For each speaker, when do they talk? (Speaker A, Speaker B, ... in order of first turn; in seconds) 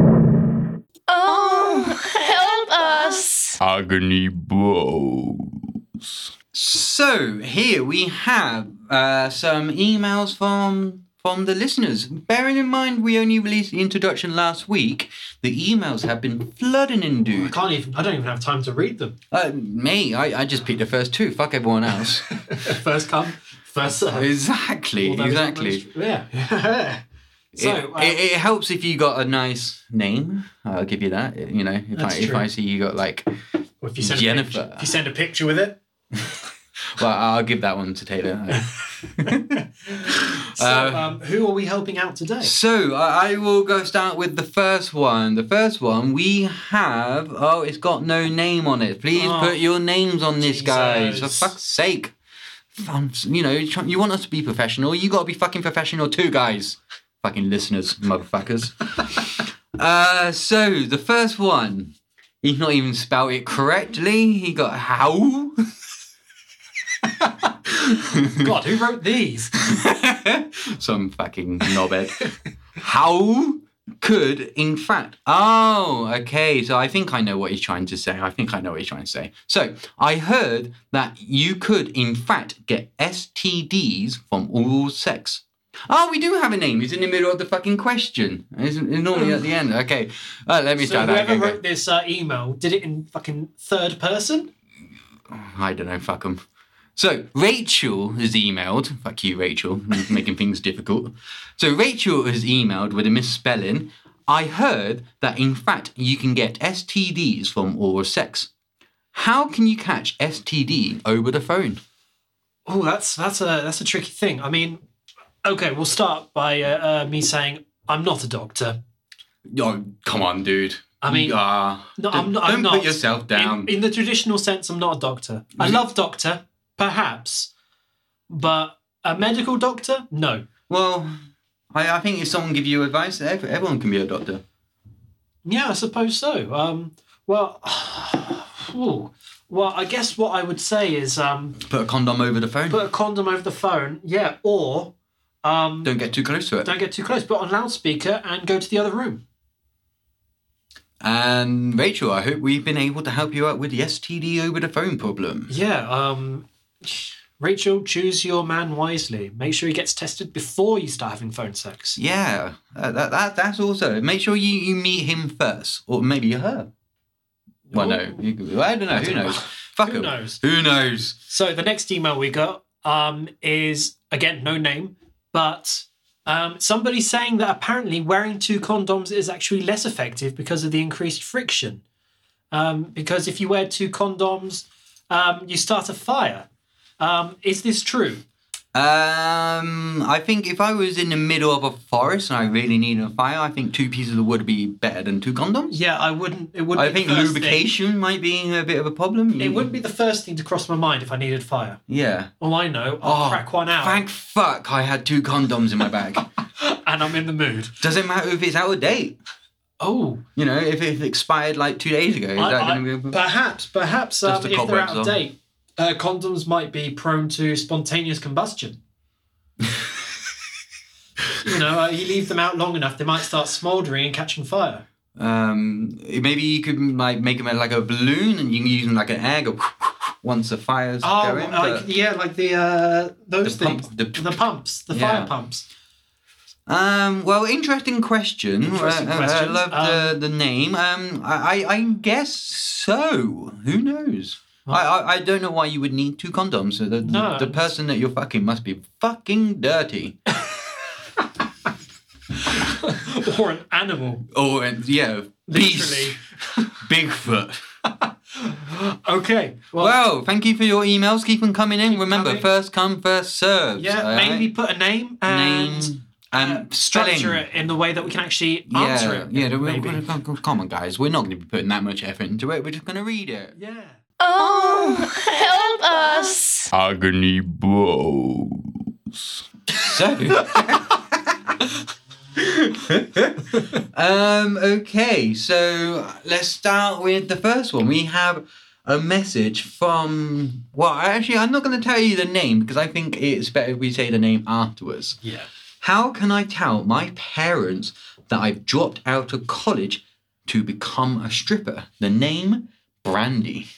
Speaker A: 1.1-3.6, 274.2-276.7
Speaker B: 3.6-6.1, 276.7-278.7
Speaker C: 6.5-17.6, 19.3-22.3, 24.1-25.8, 27.6-33.3, 34.0-35.0, 36.9-41.1, 42.4-52.1, 52.7-65.7, 67.7-68.5, 69.5-91.6, 95.3-96.4, 97.0-108.5, 109.1-111.8, 119.5-123.7, 130.7-131.1, 131.7-134.4, 141.6-142.8, 145.8-146.7, 151.0-155.5, 162.0-166.7, 167.7-171.2, 188.7-195.8, 196.7-199.7, 201.9-202.3, 203.0-206.2, 207.8-209.2, 210.3-213.2, 214.2-215.2, 225.2-231.8, 233.4-235.3, 236.7-250.2, 254.3-256.2, 256.8-257.6, 259.8-264.5, 265.2-267.4, 268.7-273.5, 279.8-281.6, 282.4-295.2, 295.8-303.6
Speaker D: 17.3-19.1, 22.3-24.3, 25.0-27.0, 27.5-28.2, 31.9-32.5, 33.8-35.8, 39.3-42.5, 49.1-49.6, 50.4-51.6, 68.3-69.5, 90.8-94.5, 112.7-114.8, 115.4-118.8, 121.0-121.4, 122.0-127.5, 128.3-130.4, 135.4-141.6, 142.7-144.9, 145.4-145.9, 146.6-149.2, 155.5-162.0, 167.7-168.2, 168.9-170.4, 171.3-181.8, 182.5-186.4, 187.0-188.2, 195.7-197.6, 199.4-201.8, 202.4-204.1, 206.6-207.8, 209.8-210.2, 212.3-218.8, 221.4-224.8, 231.0-235.7, 238.7-240.2, 247.0-247.7, 252.4-254.2, 255.5-256.8, 258.0-260.0, 261.9-262.5, 263.8-270.0, 273.6-274.0